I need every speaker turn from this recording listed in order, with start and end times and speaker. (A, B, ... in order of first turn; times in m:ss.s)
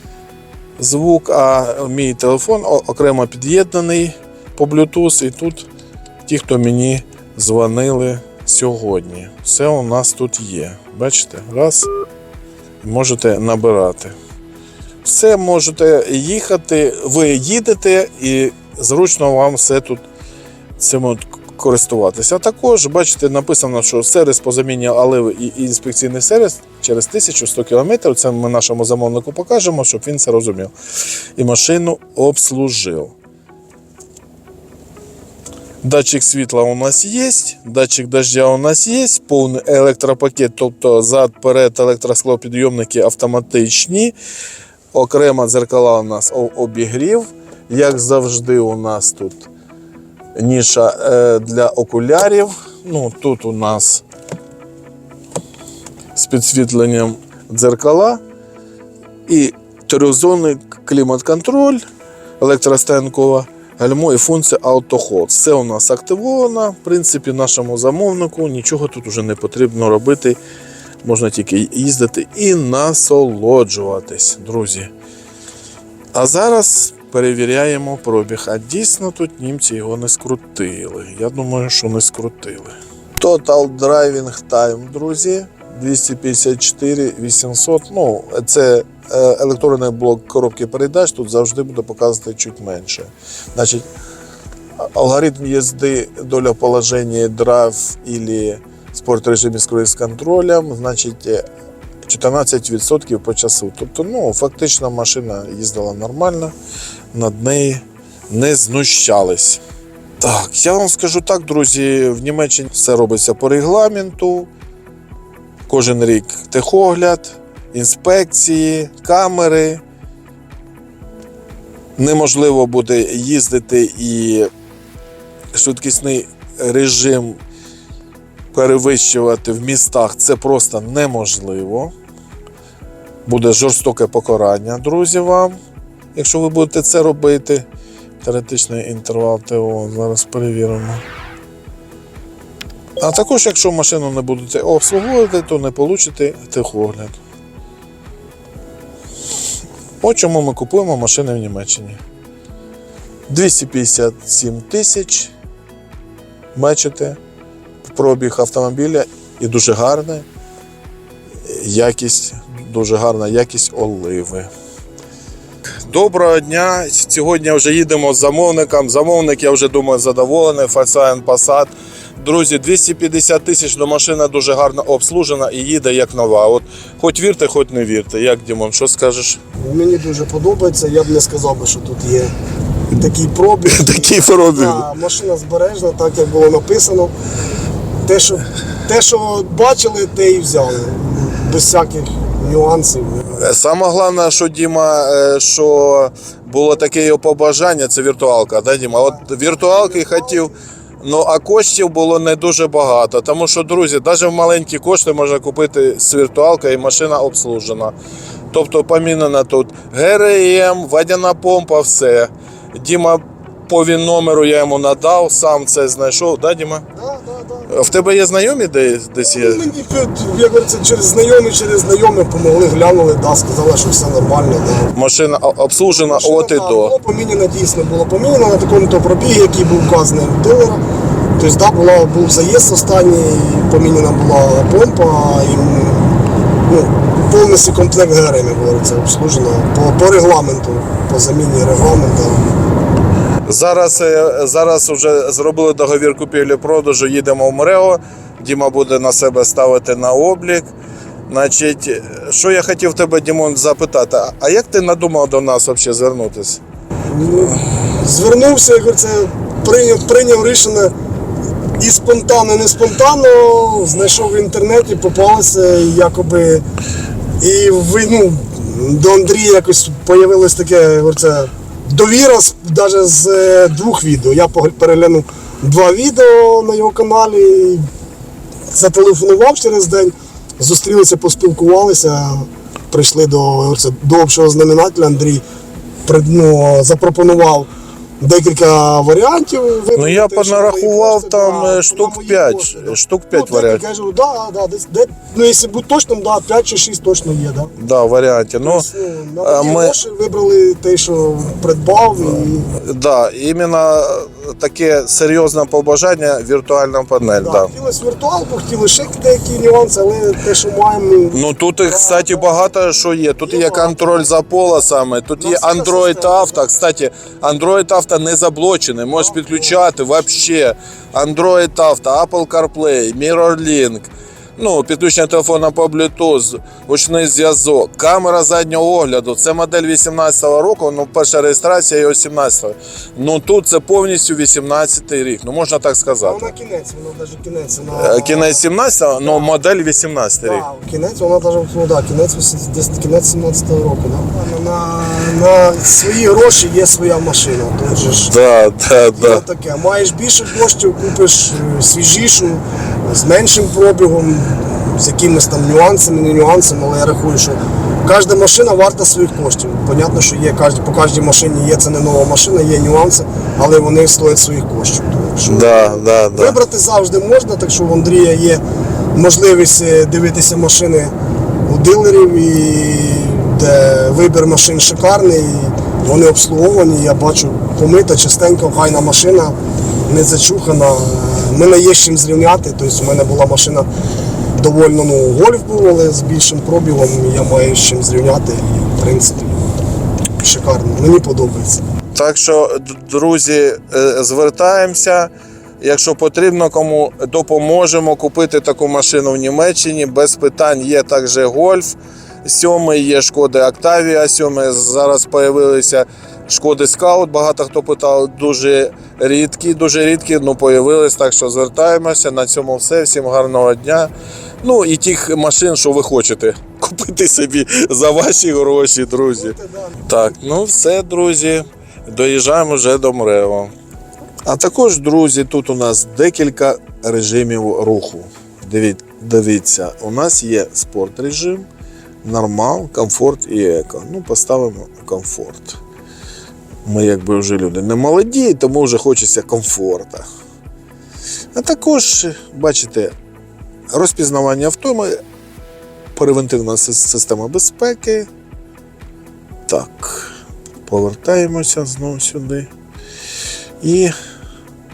0:00.8-0:05.7 A
0:06.3-0:11.9 A
0:12.8-0:14.2 A
0:15.0-0:20.0 A
0:20.8-0:30.7 A
0:31.4-0:33.1 A
0:35.8-0:44.2 A
0:44.9-0:49.5 A
0:50.4-0:54.0 A
0:56.2-0:58.2 A
0:59.3-1:01.8 A
1:02.4-1:10.4 A
1:11.0-1:14.9 A
1:16.1-1:33.9 A
1:34.9-1:41.4 A
1:42.0-1:46.5 A
1:47.1-1:49.6 A
1:50.2-1:54.5 A
1:55.7-1:59.8 A
2:02.0-2:04.5 A
2:05.5-2:07.4 A
2:08.5-2:11.9 A
2:13.3-2:15.6 A
2:16.2-2:17.7 A
2:18.2-2:21.0 A
2:23.0-2:27.2 A
2:30.0-2:32.0 A
2:33.3-2:35.3 A
2:36.6-2:37.2 A
2:37.8-2:40.3 A
2:41.4-2:44.5 A
2:45.9-2:59.4 A
2:59.6-3:02.3 B
3:02.9-3:07.1 B
3:03.7-3:04.9 A
3:08.0-3:13.3 B
3:13.3-3:27.9 A
3:19.1-3:20.6 B
3:28.5-3:36.8 A
3:37.0-3:38.0 B
3:37.7-3:39.7 A
3:39.3-3:44.9 B
3:44.9-3:47.0 A
3:45.9-3:50.8 B
3:51.4-4:02.5 B
4:03.5-4:10.7 A
4:11.3-4:16.6 A
4:17.1-4:20.9 B
4:21.8-4:26.6 B
4:27.4-4:37.9 B
4:38.7-4:45.4 B
4:46.0-4:57.7 B
4:50.0-4:53.8 A
4:57.8-4:58.9 A
4:58.6-5:02.7 B
4:59.4-5:00.0 A
5:02.7-5:07.7 A
5:07.4-5:12.5 B
5:11.3-5:36.5 A
5:13.4-5:14.3 B
5:15.4-5:16.6 B
5:19.2-5:19.8 B
5:36.2-5:38.6 B
5:37.9-5:40.6 A
5:39.2-5:39.5 B
5:40.4-5:48.3 B
5:48.0-5:49.4 A
5:49.2-6:08.6 B
6:05.4-6:06.6 A
6:09.1-6:11.1 B
6:11.7-6:19.6 B
6:20.1-6:23.9 B
6:24.6-6:29.6 B
6:30.4-6:31.8 B
6:32.1-6:35.3 A
6:35.8-6:54.1 A
6:54.6-7:03.7 A
6:59.3-7:00.0 B
7:04.5-7:11.7 A
7:12.2-7:15.8 A
7:16.8-7:20.2 A
7:21.6-7:23.1 A
7:23.9-7:25.2 A
7:26.2-7:28.3 A
7:29.7-7:30.3 A
7:30.8-7:32.7 A
7:33.8-7:34.1 A